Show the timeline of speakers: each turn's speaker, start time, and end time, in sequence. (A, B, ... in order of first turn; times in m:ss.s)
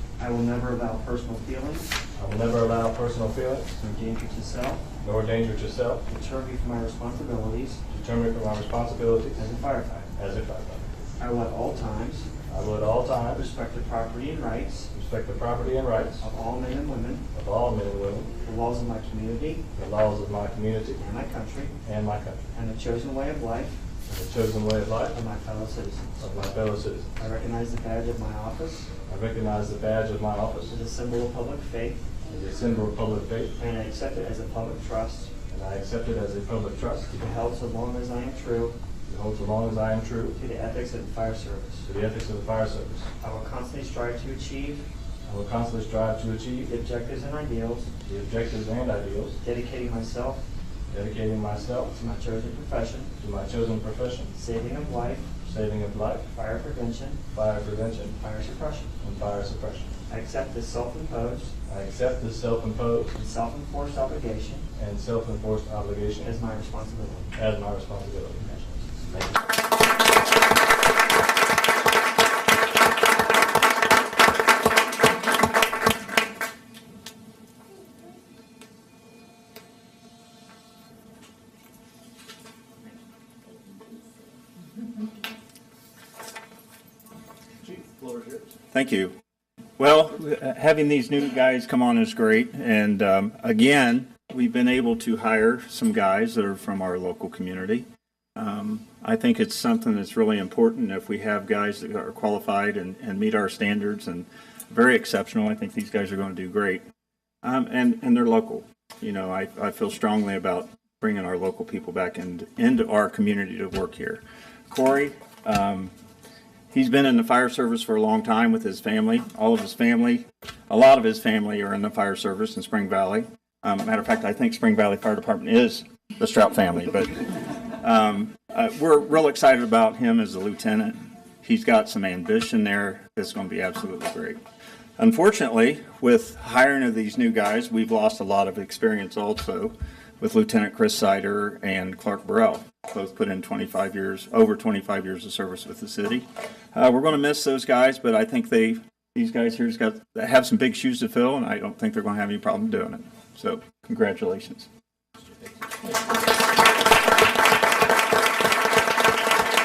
0:00.2-0:01.9 A
0:02.2-0:03.8 B
0:03.8-0:04.8 A
0:05.0-0:06.0 B
0:06.0-0:07.8 A
0:07.9-0:09.5 B
0:09.4-0:10.1 A
0:10.1-0:10.9 B
0:11.2-0:12.3 A
0:12.5-0:13.5 B
0:13.2-0:14.9 A
0:14.9-0:16.2 B
0:16.2-0:17.2 A
0:17.3-0:18.3 B
0:18.4-0:19.7 A
0:19.7-0:21.0 B
0:21.0-0:21.8 A
0:21.8-0:22.4 B
0:22.5-0:23.8 A
0:24.1-0:25.2 B
0:25.1-0:26.2 A
0:26.2-0:27.1 B
0:27.2-0:28.9 A
0:29.1-0:30.7 B
0:30.7-0:32.1 A
0:32.2-0:33.5 B
0:33.6-0:35.3 A
0:35.5-0:37.1 B
0:37.1-0:38.8 A
0:39.0-0:40.4 B
0:40.3-0:41.9 A
0:41.8-0:43.1 B
0:43.2-0:44.8 A
0:45.2-0:46.7 B
0:46.6-0:47.9 A
0:48.0-0:49.4 B
0:49.4-0:50.4 A
0:50.9-0:51.9 B
0:51.9-0:53.1 A
0:53.2-0:54.3 B
0:54.3-0:55.3 A
0:55.4-0:56.3 B
0:56.3-0:57.2 A
0:57.3-0:58.2 B
0:58.1-0:58.9 A
0:59.0-0:59.9 B
1:00.1-1:01.5 A
1:01.7-1:03.1 B
1:03.1-1:04.7 A
1:04.8-1:06.3 B
1:06.2-1:07.3 A
1:07.3-1:08.5 B
1:08.4-1:09.1 A
1:09.1-1:09.4 B
1:27.8-1:28.4 B
1:28.7-1:29.1 C
1:29.8-1:46.8 C
1:47.4-1:55.9 C
1:56.7-2:14.4 C
2:15.0-2:34.7 C